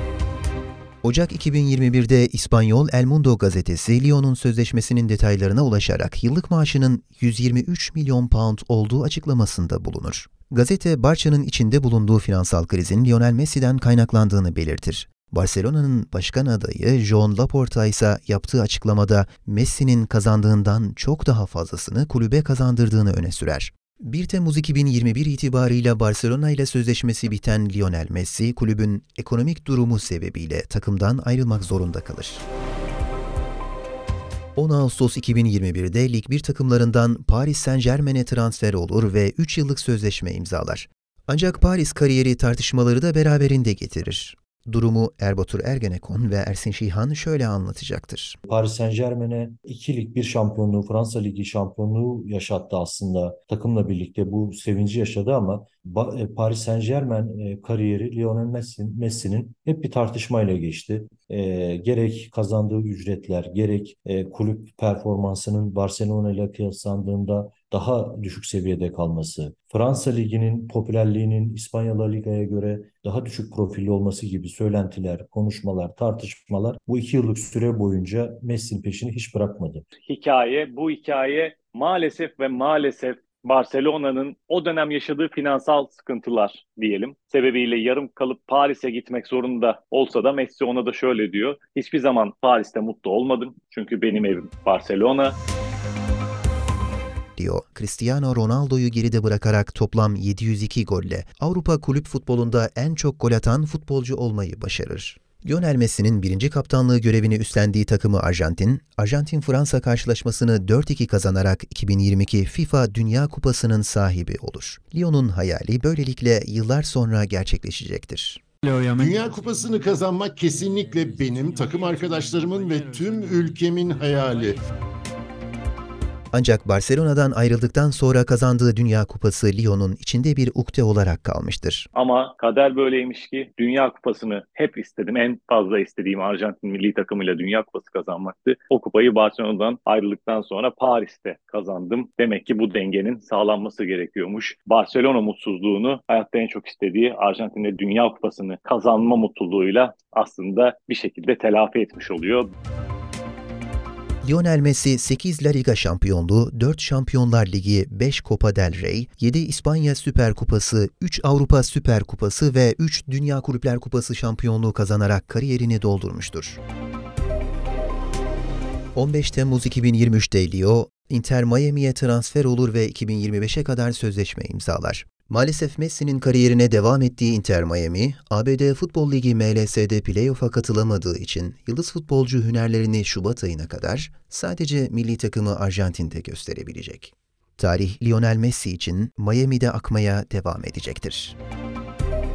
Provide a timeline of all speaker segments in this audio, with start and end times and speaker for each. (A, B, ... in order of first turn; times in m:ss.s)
0:01.0-0:32.4 A
0:34.6-0:48.4 A
0:48.5-1:19.8 B
1:20.1-1:35.4 C
1:37.4-1:58.4 A
1:58.8-2:04.6 D
2:06.3-2:11.9 A
2:11.9-2:32.5 C
2:34.2-2:46.6 A
2:48.9-3:11.3 A